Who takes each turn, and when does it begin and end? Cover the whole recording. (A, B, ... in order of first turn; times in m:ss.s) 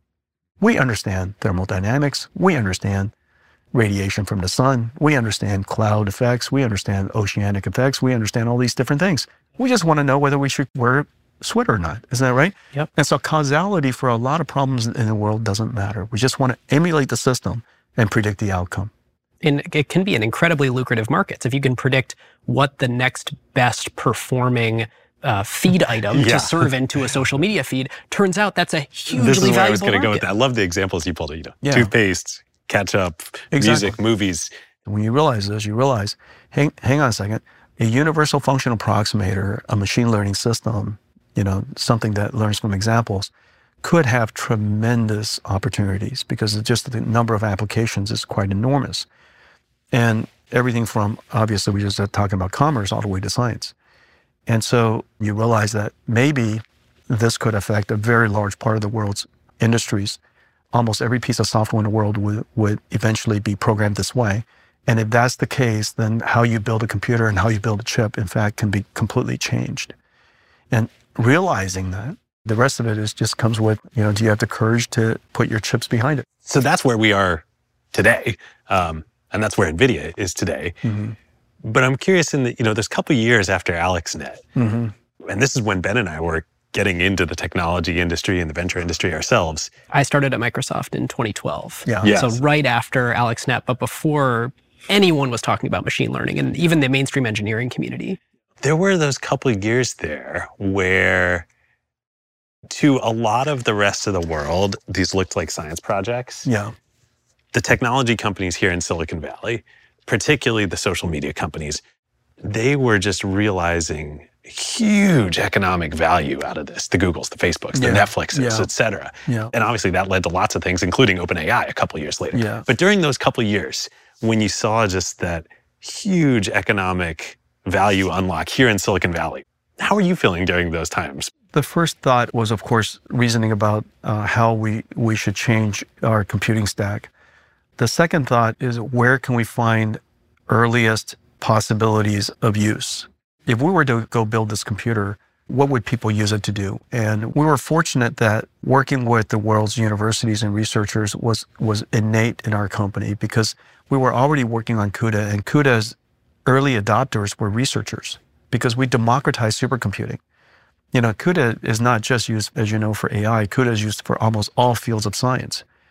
0:00.6-0:03.1 A
0:03.7-0:18.9 A
0:19.4-0:30.3 B
0:26.1-0:26.6 C
0:29.2-0:34.5 C
0:31.6-0:31.9 A
0:33.5-0:34.0 A
0:34.8-0:43.3 A
0:43.8-0:49.1 A
0:49.9-0:53.7 A
0:54.5-1:00.2 A
1:00.7-1:09.9 A
1:10.7-1:16.3 A
1:16.4-1:20.8 C
1:20.8-1:21.2 A
1:21.6-1:24.4 C
1:24.6-1:24.9 A
1:25.2-1:29.7 C
1:29.9-1:38.2 B
1:31.9-1:32.1 A
1:32.0-1:32.4 C
1:38.6-1:41.4 C
1:42.7-1:46.5 C
1:46.4-1:46.7 A
1:47.5-1:51.8 C
1:52.4-2:11.3 C
1:57.7-1:58.7 A
1:59.2-1:59.5 A
2:02.3-2:02.6 A
2:11.5-2:17.1 A
2:17.8-2:40.2 A
2:40.9-2:45.6 A